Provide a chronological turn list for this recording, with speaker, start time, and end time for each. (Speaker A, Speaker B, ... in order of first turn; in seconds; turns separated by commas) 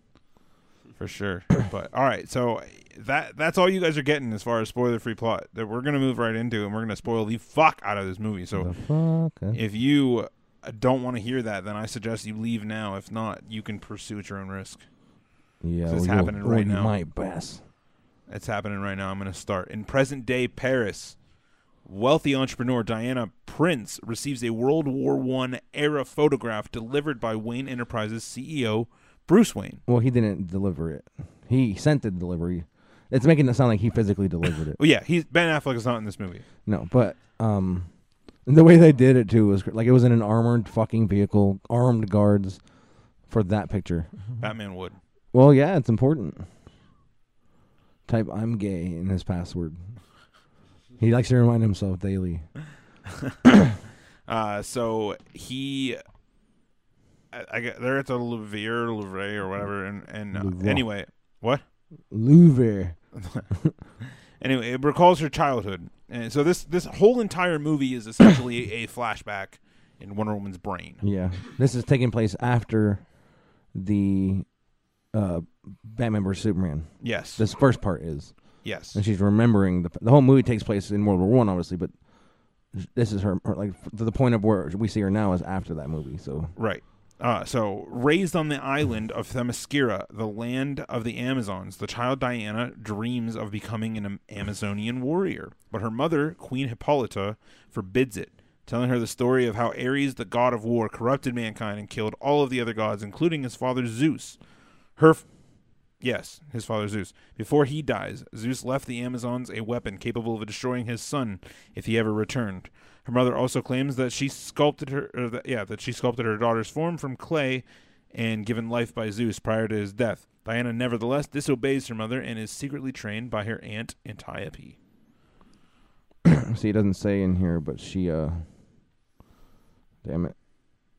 Speaker A: 1.0-8.7, Speaker B: 8.5-9.6, Speaker A: 9.5-14.8, Speaker B: 15.6-17.6, Speaker A: 15.8-16.9, Speaker A: 18.3-21.2, Speaker A: 21.8-29.8, Speaker B: 29.9-34.8, Speaker A: 34.8-36.4, Speaker B: 36.6-37.9, Speaker B: 38.4-42.6, Speaker B: 43.3-44.2, Speaker A: 44.4-45.0, Speaker B: 45.3-46.5, Speaker B: 48.1-49.8, Speaker B: 51.0-52.5, Speaker A: 54.2-56.0, Speaker A: 57.3-61.6, Speaker B: 60.3-60.9, Speaker B: 62.1-63.0, Speaker A: 63.1-63.5, Speaker A: 64.4-71.0, Speaker B: 71.0-73.0, Speaker B: 73.7-74.5, Speaker B: 75.1-81.9, Speaker A: 77.0-77.5, Speaker A: 78.6-79.0, Speaker B: 82.7-86.5, Speaker A: 86.5-104.4, Speaker A: 105.0-105.2, Speaker A: 106.0-124.8, Speaker B: 126.2-128.4, Speaker B: 130.0-130.3